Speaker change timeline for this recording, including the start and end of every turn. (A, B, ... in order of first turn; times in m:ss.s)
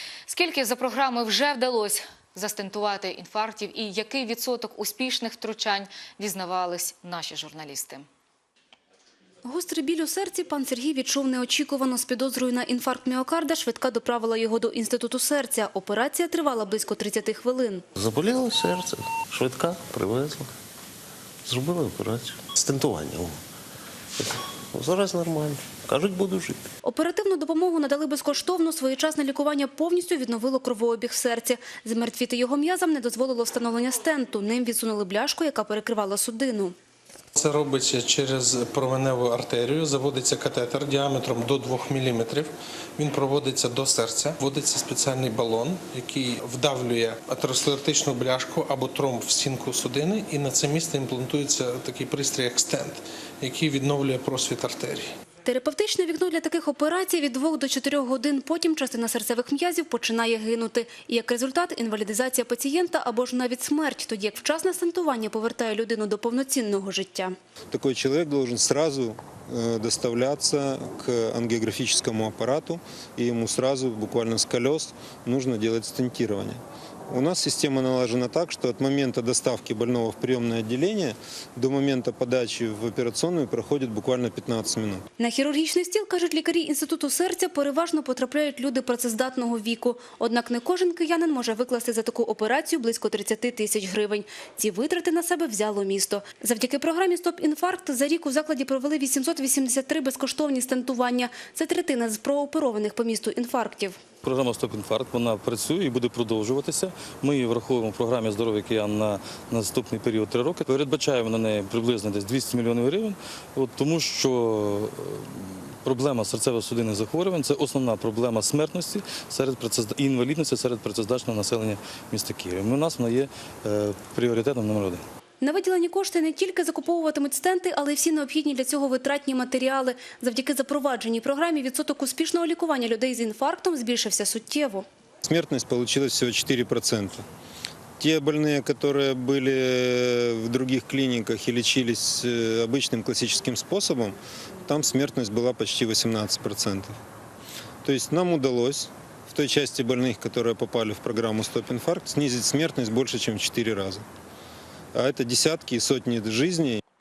0:00.3-0:08.0 A
0:09.4-0:17.8 B
0:18.0-0:20.5 C
0:21.4-0:23.4 C
0:24.2-0:26.7 C
0:26.8-0:36.8 B
0:37.4-0:55.1 D
0:55.5-1:07.4 B
1:07.7-1:25.0 E
1:25.2-1:44.0 B
1:44.2-2:05.0 F
2:05.4-2:14.9 B
2:15.2-2:17.2 E
2:18.0-2:27.0 E
2:27.8-2:34.0 E
2:35.0-2:36.8 E